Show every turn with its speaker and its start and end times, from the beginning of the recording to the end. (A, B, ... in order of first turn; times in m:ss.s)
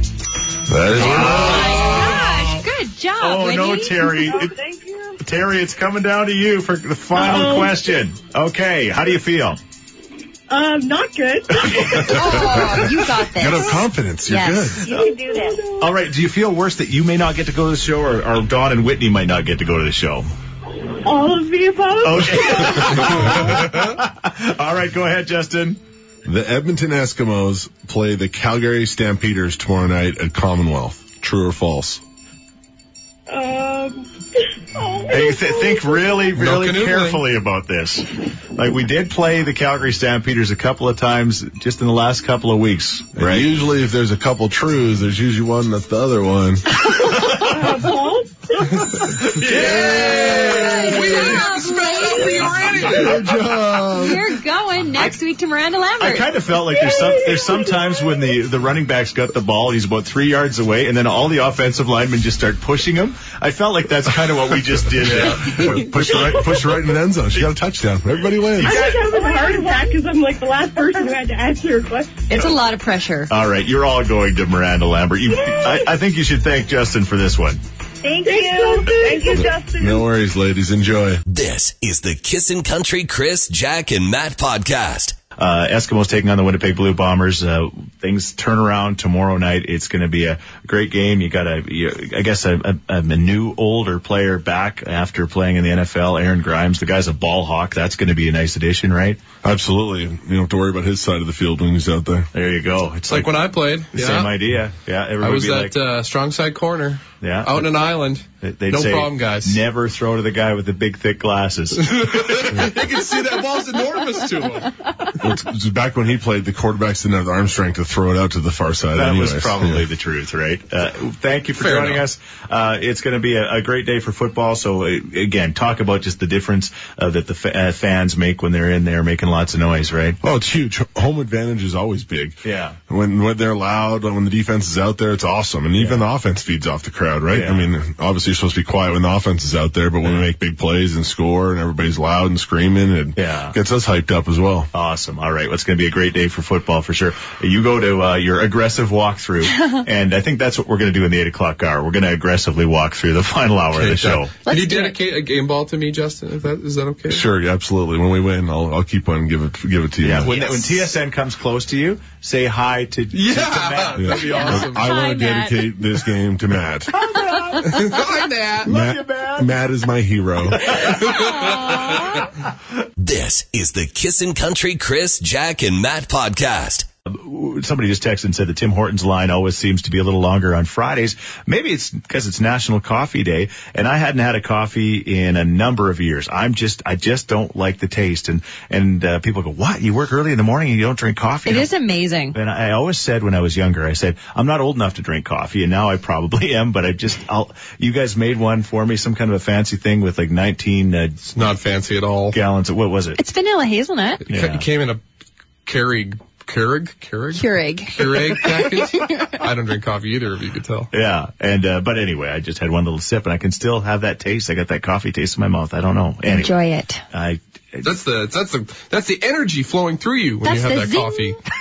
0:00.7-0:01.9 A
0:00.9-0:02.6 B
0:01.1-0:04.2 C
0:03.2-0:04.6 B
0:04.3-0:05.1 D
0:05.2-0:09.6 B
0:07.2-0:07.9 D
0:10.5-0:13.1 D
0:11.6-0:12.4 B
0:12.1-0:14.9 C
0:12.2-0:14.9 A
0:14.8-0:15.9 D
0:15.8-0:20.3 B
0:21.0-0:23.4 D
0:22.0-0:25.8 B
0:26.2-0:32.0 A
0:33.3-0:34.1 D
0:34.7-0:36.3 D
0:35.1-0:43.5 B
0:36.4-0:37.2 E
0:43.2-0:46.9 A
0:46.9-0:53.3 D
0:47.0-0:47.7 B
0:49.2-0:50.3 B
0:49.4-0:53.3 E
0:49.5-0:50.5 A
0:50.4-0:52.6 C
0:52.7-0:54.4 A
0:53.9-0:56.3 C
0:56.0-1:06.2 B
0:56.5-0:58.2 D
1:05.0-1:08.8 A
1:05.6-1:05.9 C
1:06.1-1:06.8 D
1:08.6-1:09.0 B
1:08.6-1:12.4 D
1:08.7-1:10.0 F
1:12.3-1:13.3 C
1:13.3-1:17.6 B
1:15.4-1:15.8 D
1:18.0-1:19.5 F
1:18.2-1:20.1 D
1:19.3-1:21.2 A
1:21.3-1:25.2 G
1:25.4-1:39.2 B
1:39.4-1:42.3 A
1:42.3-1:43.3 B
1:43.1-1:44.4 E
1:43.9-1:45.8 B
1:45.2-1:49.6 E
1:47.2-1:47.7 B
1:48.4-1:52.5 B
1:51.8-1:54.7 E
1:55.2-1:59.8 A
1:58.9-2:10.2 B
2:01.6-2:02.0 E
2:10.2-2:24.7 A
2:12.4-2:12.8 B
2:15.8-2:16.0 B
2:17.3-2:17.7 B
2:23.2-2:23.6 B
2:24.7-2:34.3 B
2:33.8-2:37.3 E
2:34.4-2:35.0 C
2:37.1-2:40.3 A
2:40.0-2:44.7 B
2:40.2-2:40.9 C
2:43.1-2:44.9 E
2:44.0-2:47.0 A
2:44.6-2:45.7 C
2:46.9-2:48.0 B
2:47.6-2:48.7 E
2:48.6-2:50.8 A
2:48.6-2:49.6 B
2:50.7-2:51.1 B
2:50.8-2:51.7 E
2:51.4-2:52.2 C
2:53.0-2:56.9 G
2:57.1-3:11.7 B
3:11.5-3:12.4 C
3:12.3-3:21.3 B
3:21.3-3:22.4 E
3:22.3-3:23.2 B
3:23.2-3:24.2 C
3:24.3-3:25.0 E
3:24.3-3:24.7 B
3:25.7-3:30.9 E
3:27.3-3:29.4 C
3:30.9-3:36.5 B
3:36.3-3:37.0 C
3:37.1-3:38.0 B
3:37.8-3:41.4 E
3:40.4-3:41.4 C